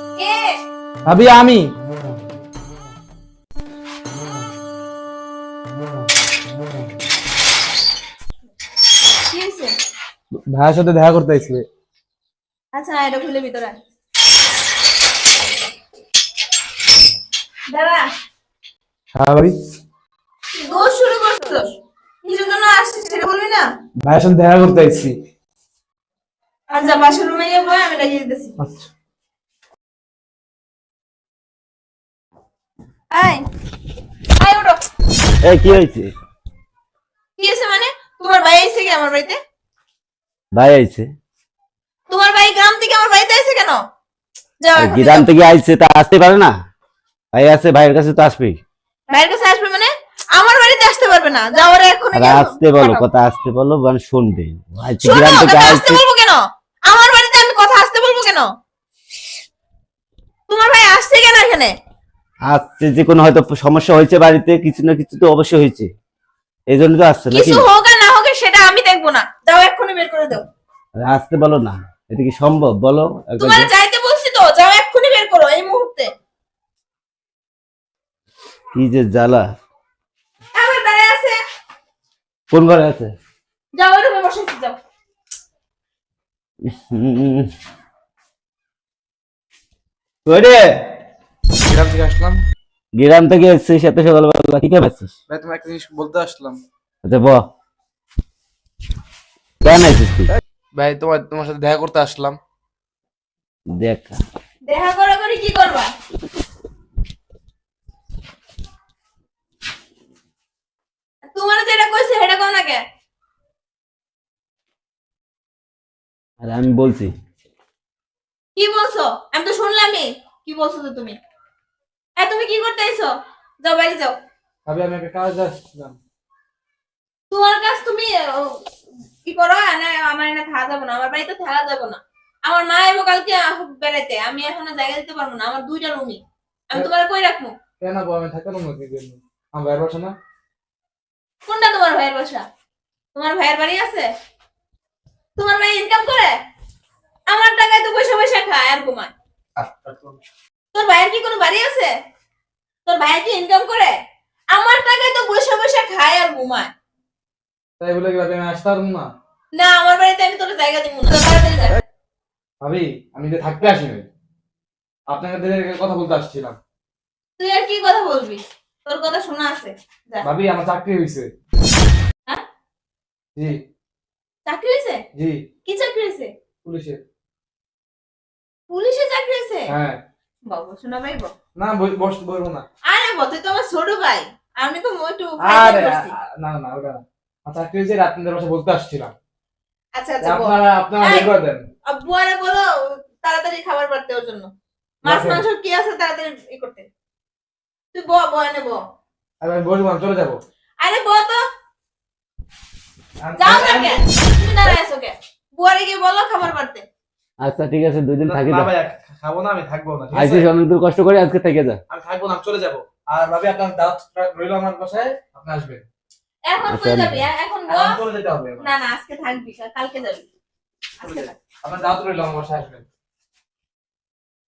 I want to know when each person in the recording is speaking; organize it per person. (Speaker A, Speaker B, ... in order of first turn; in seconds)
Speaker A: 0.2-0.6, 9.3-9.7, 12.7-13.8, 17.7-18.1, 20.6-23.6, 26.7-28.5, 33.1-33.5, 34.4-34.8, 37.4-39.4, 42.1-43.8, 44.6-45.3, 49.1-53.0, 55.0-58.5, 60.5-61.7, 67.3-70.4, 73.4-76.1, 80.5-81.4, 83.7-84.8, 104.6-105.9, 111.3-112.8, 118.5-121.2, 122.2-123.1, 123.6-124.2, 127.3-128.6, 129.2-136.2, 136.7-137.5, 141.5-142.4, 143.1-144.1, 145.4-146.3, 147.3-149.1, 150.7-151.9, 152.8-153.9, 154.5-156.7, 159.6-161.8, 167.4-170.2, 174.5-175.0, 175.7-176.3, 178.7-179.7, 180.5-181.3, 182.9-186.1, 189.9-191.3, 191.8-194.5, 195.0-196.8, 197.9-198.8, 200.8-201.4, 203.4-206.8, 216.5-217.9, 218.6-220.2, 221.0-221.3
Speaker B: 1.1-1.7, 10.5-11.6, 19.1-19.6, 24.0-25.2, 28.6-28.9, 91.6-92.4, 95.3-96.6, 100.7-102.4, 124.7-126.0, 137.8-140.1, 149.6-150.2, 157.8-159.1, 162.6-164.1, 165.1-166.6, 170.2-171.3, 175.2-175.4, 176.6-177.0, 179.7-180.0, 181.6-182.6, 185.4-189.1, 190.2-191.6, 195.0-195.4, 199.4-200.4, 203.2-204.0, 208.2-210.5, 211.9-215.8, 217.7-218.7, 221.0-222.8
Speaker C: 35.4-36.1, 40.5-41.1, 44.8-46.5, 47.3-48.6, 52.1-56.0, 62.5-65.9, 66.7-67.7, 71.0-73.7, 78.7-79.5, 82.5-83.1, 86.6-87.5, 90.2-90.7, 93.0-95.1, 97.0-97.4, 99.6-100.3, 103.7-104.2, 116.4-117.1, 207.4-208.7, 210.1-211.8, 216.7-217.3